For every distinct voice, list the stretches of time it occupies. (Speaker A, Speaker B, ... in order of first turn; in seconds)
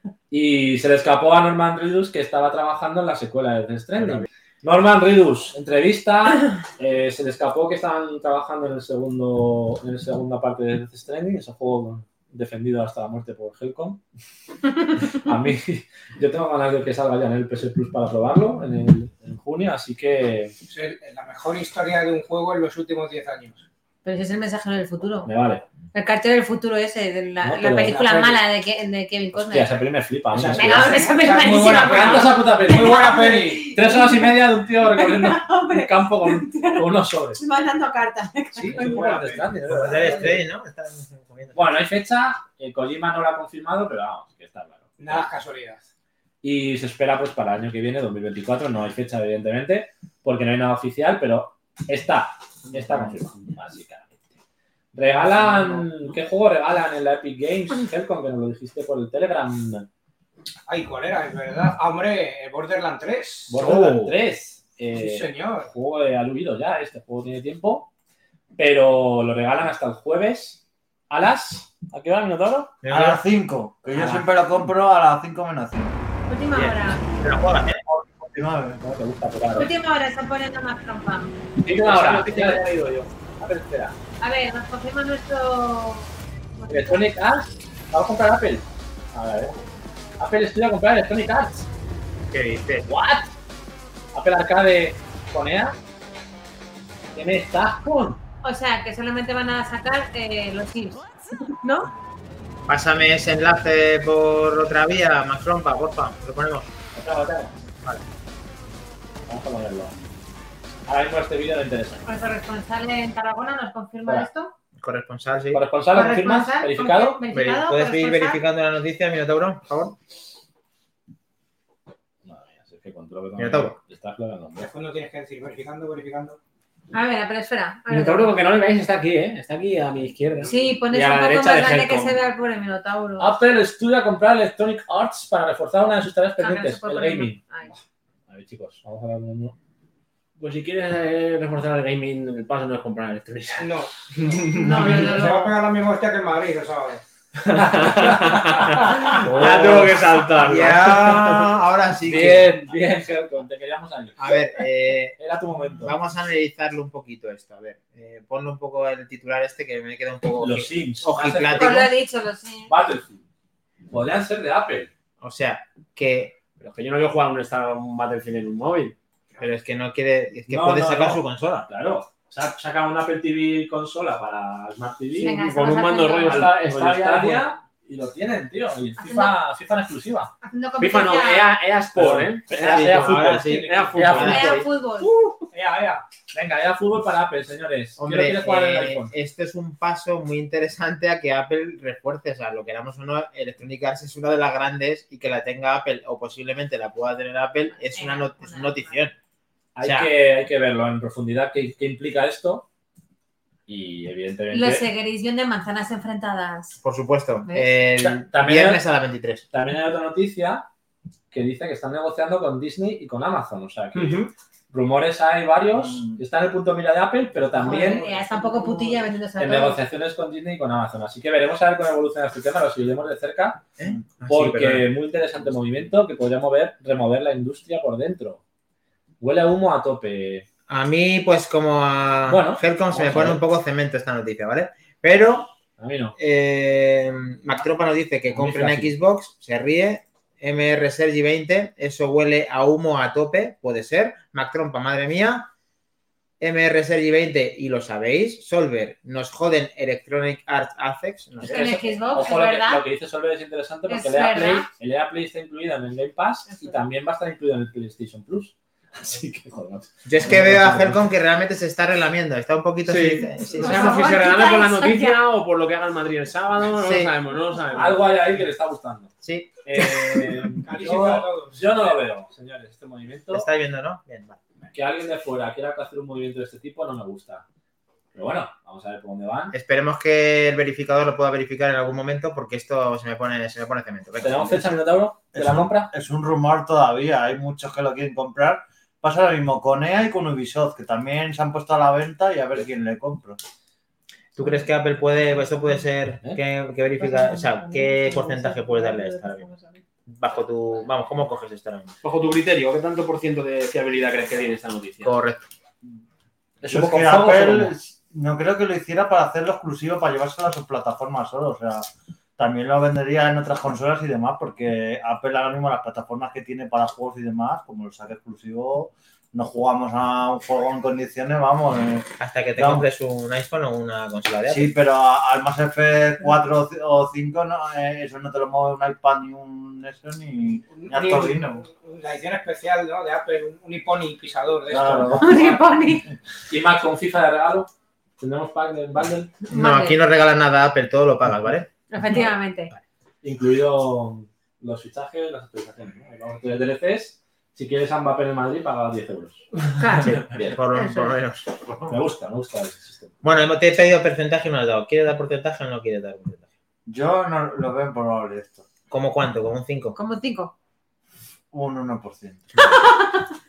Speaker A: 0.3-14.0, 15.1-20.5, 25.2-25.6, 27.4-28.4, 29.5-37.4, 38.5-40.4, 41.5-45.3, 46.4-54.3, 54.9-59.9, 63.5-67.9, 68.6-72.7, 73.9-74.2, 78.8-79.7, 81.6-83.9, 86.7-89.6, 90.2-91.7, 92.9-93.3, 94.1-95.8, 97.1-98.2, 106.9-107.6, 109.3-109.9, 110.9-112.0, 115.5-117.2, 122.2-124.7, 131.0-132.1, 133.2-137.4, 138.3-139.5, 147.6-149.0, 152.7-154.3, 155.2-155.9, 160.4-161.8, 162.7-163.2, 163.9-164.9, 170.5-175.4, 176.2-180.3, 181.9-184.6, 185.5-189.1, 199.8-202.6, 203.7-204.9, 208.0-208.8, 209.5-210.7, 211.3-218.1, 219.4-223.6, 224.3-228.4, 229.2-230.4, 232.3-233.4, 235.8-236.1, 238.3-238.9, 251.4-261.0, 267.7-269.1, 269.6-273.5, 274.7-277.4, 278.1-279.5, 284.2-285.9, 306.6-307.7, 335.0-335.4, 336.5-339.3, 343.2-349.5, 350.1-350.6, 351.9-353.1
Speaker B: 4.0-4.3, 39.7-41.7, 72.8-73.2, 76.5-77.8, 92.3-92.9, 102.7-106.7, 114.8-115.6, 117.3-120.0, 123.4-123.8, 149.2-152.6, 154.2-155.2, 155.8-161.9, 165.2-166.4, 169.4-171.7, 182.6-184.6, 188.0-199.1, 199.8-200.1, 206.8-209.4, 223.8-224.9, 230.7-235.5, 236.2-245.5, 246.4-251.8, 260.1-264.1, 266.8-267.1, 269.2-269.5, 273.3-274.4, 279.5-284.7, 294.4-299.5, 300.1-301.9, 305.0-305.5, 322.2-324.7, 339.5-341.7, 350.0-351.5, 353.2-356.5, 358.9-359.9
Speaker C: 20.7-23.6, 27.9-28.3, 30.3-33.7, 38.6-39.6, 45.0-45.9, 60.7-63.7, 64.9-65.7, 124.6-126.4, 143.6-147.0, 214.0-214.3, 217.6-218.9, 270.6-272.0, 330.7-335.4
Speaker D: 24.0-25.3, 25.9-29.8, 30.5-39.0, 76.3-77.0, 79.5-81.4, 84.2-87.1, 98.4-101.9, 112.0-114.5, 115.9-118.4, 126.9-128.3, 130.5-133.4, 136.4-137.7, 144.5-145.5, 161.5-162.7, 175.2-176.5, 179.0-179.3, 180.4-181.5, 184.2-185.1, 197.8-199.0, 204.5-206.8, 217.6-219.8, 251.4-252.8, 253.9-254.7, 263.6-265.2, 335.2-336.1, 339.5-340.0, 341.9-342.7, 349.8-350.2, 350.7-351.1, 359.9-360.5, 362.6-363.2
Speaker E: 63.6-64.1, 81.8-83.0, 127.9-132.0, 140.4-143.7, 147.4-151.5, 152.0-152.8, 166.6-168.9, 175.3-177.6, 180.8-184.6, 262.8-268.2, 302.0-305.2
Speaker F: 72.9-76.0, 77.8-78.8, 215.8-216.2, 285.3-293.4, 306.7-311.9, 312.4-322.8, 324.5-331.6, 334.7-335.5, 351.6-352.0, 356.9-358.6, 361.5-362.4